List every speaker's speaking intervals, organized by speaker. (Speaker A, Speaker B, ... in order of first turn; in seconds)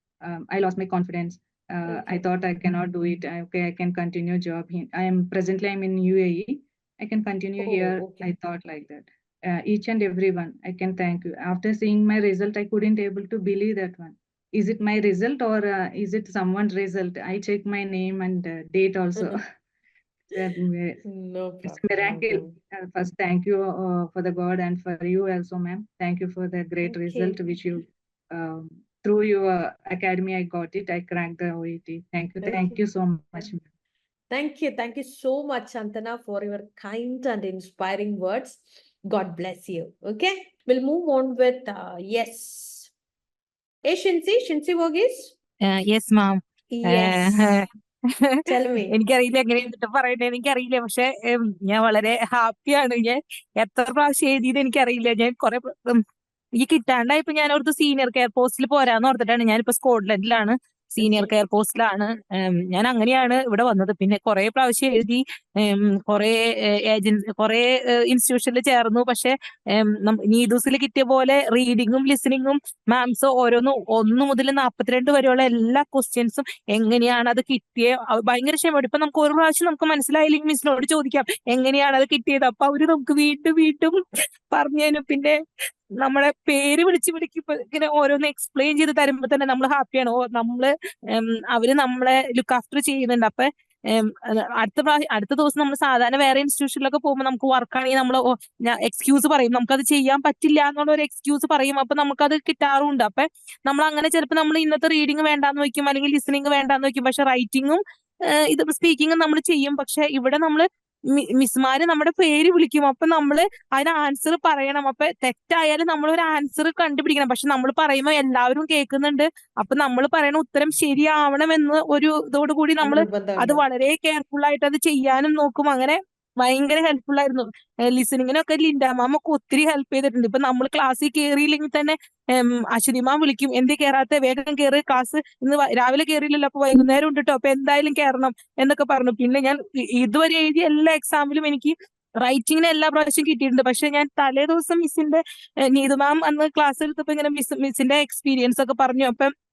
Speaker A: 0.2-19.4, 20.3-21.0, 21.6-33.6
Speaker B: 1.9-2.2, 7.6-8.3, 21.0-22.5, 26.8-27.4, 32.4-32.8, 34.3-42.9, 43.9-45.3, 46.7-47.4, 48.5-48.9, 61.0-61.3, 122.8-123.6
Speaker C: 45.7-47.7, 48.2-56.0, 56.6-84.0, 84.5-85.4, 86.0-110.7, 111.2-145.2, 145.7-149.3